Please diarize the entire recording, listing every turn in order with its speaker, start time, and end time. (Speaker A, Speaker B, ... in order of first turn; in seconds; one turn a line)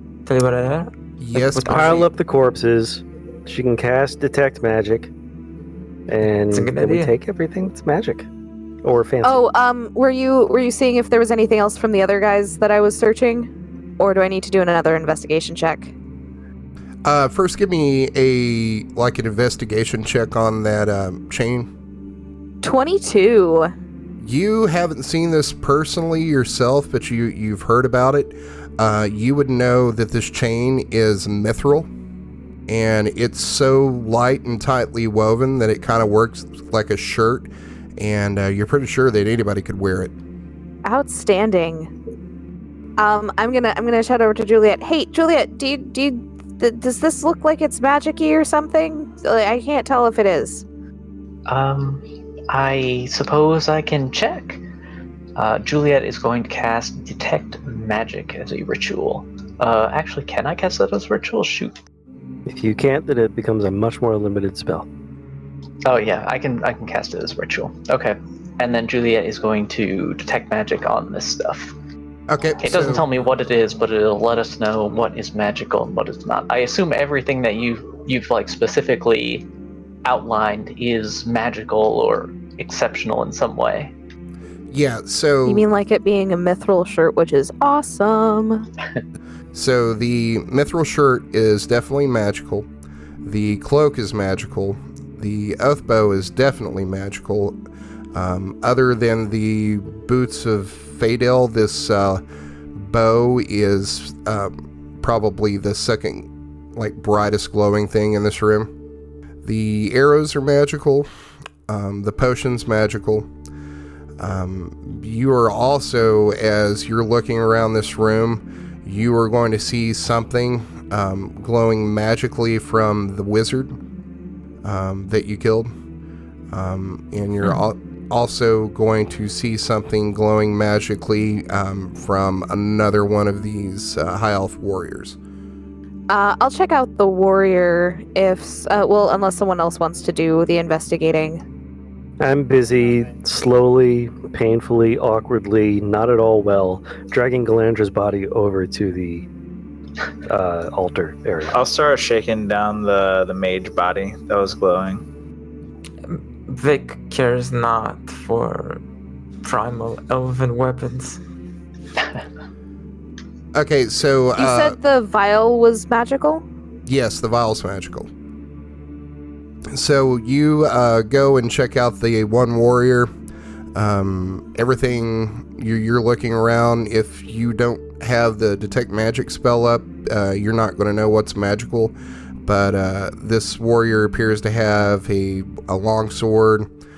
Speaker A: 0.2-2.1
Speaker B: 1.2-2.1
Speaker C: 1.7-5.1
Speaker C: 6.1-8.3
Speaker A: 6.5-7.1
Speaker C: 8.8-9.5
Speaker D: 9.2-15.9
Speaker B: 17.0-21.7
Speaker D: 22.6-23.7
Speaker B: 24.2-31.9
Speaker B: 32.7-40.1
Speaker D: 40.8-41.9
Speaker D: 43.0-50.6
Speaker E: 51.5-54.6
Speaker E: 55.4-61.8
Speaker C: 62.5-64.9
Speaker E: 65.8-71.7
Speaker B: 72.3-73.0
Speaker E: 72.6-79.5
Speaker E: 80.0-83.9
Speaker B: 84.7-85.7
Speaker D: 85.5-88.7
Speaker B: 89.5-92.7
Speaker B: 93.2-97.5
Speaker B: 98.1-102.2
Speaker B: 102.7-108.7
Speaker B: 109.4-111.1
Speaker B: 111.7-113.3
Speaker B: 114.2-123.8
Speaker B: 124.6-125.7
Speaker B: 126.5-135.2
Speaker D: 136.1-141.4
Speaker C: 142.2-149.3
Speaker C: 150.3-151.6
Speaker F: 151.5-155.0
Speaker A: 156.1-158.8
Speaker A: 159.4-161.2
Speaker B: 163.5-164.8
Speaker D: 164.4-166.4
Speaker B: 166.8-168.1
Speaker B: 169.7-173.1
Speaker B: 173.7-186.7